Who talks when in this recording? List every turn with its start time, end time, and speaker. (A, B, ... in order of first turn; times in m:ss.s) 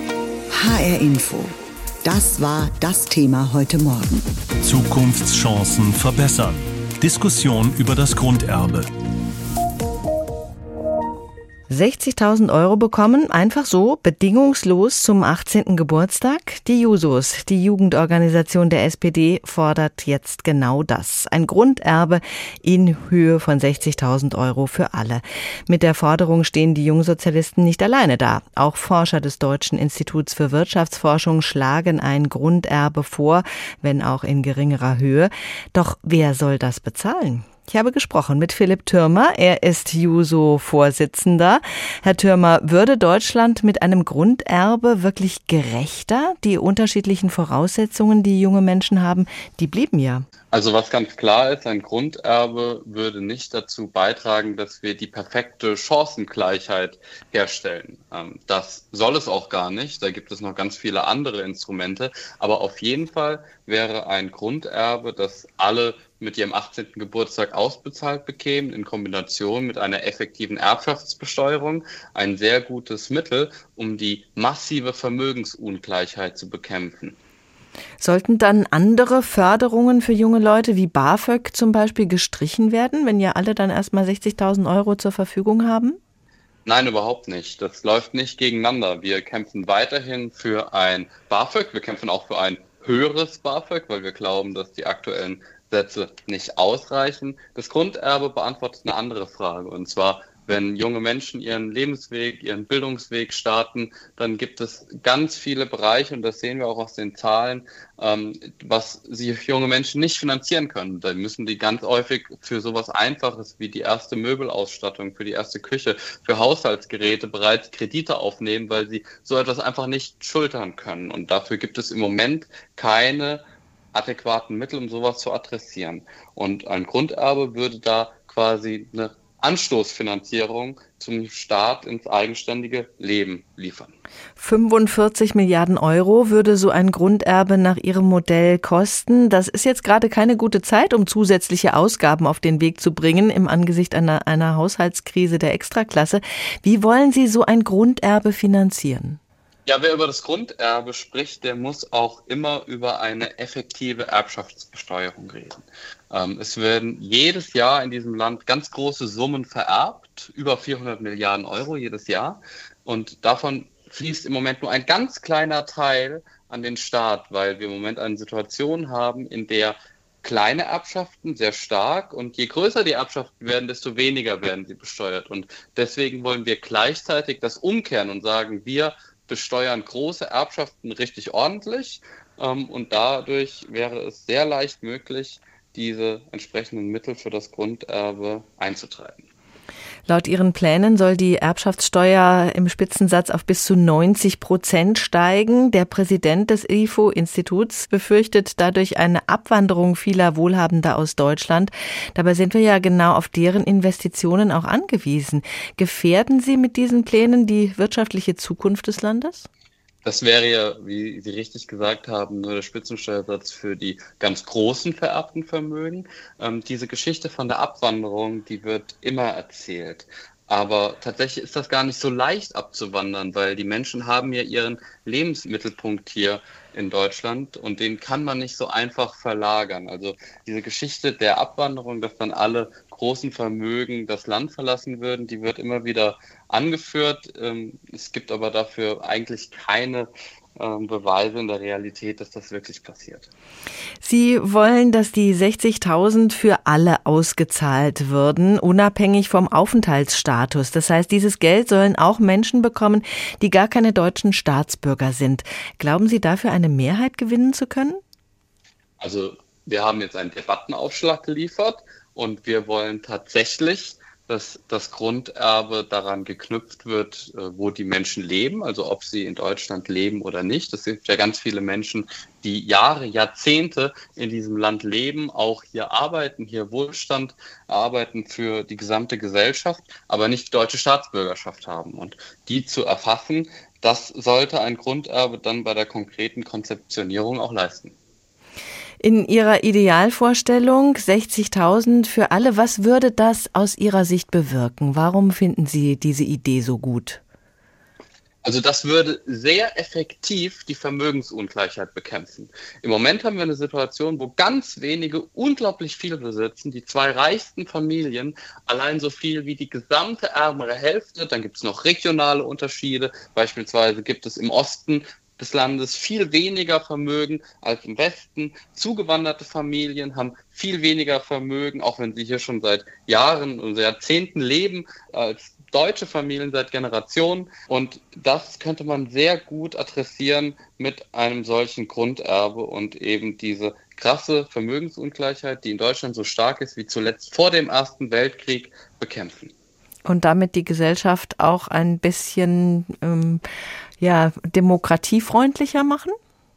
0:00.5-0:01.5 A
0:02.0-0:04.2 A
0:04.6-0:08.9 B
0:11.7-0:50.2 C
0:50.5-1:17.2 D
1:18.0-1:26.0 C
1:26.6-2:03.4 D
2:03.9-2:13.9 D
2:14.4-2:29.2 C
2:29.6-3:09.2 D
3:10.0-3:29.5 C
3:30.0-4:03.3 D
4:04.0-4:18.0 C
4:19.0-4:47.9 D
4:49.0-4:57.2 C
4:58.4-5:39.5 D
5:40.0-5:43.4 C
5:44.0-5:46.1 C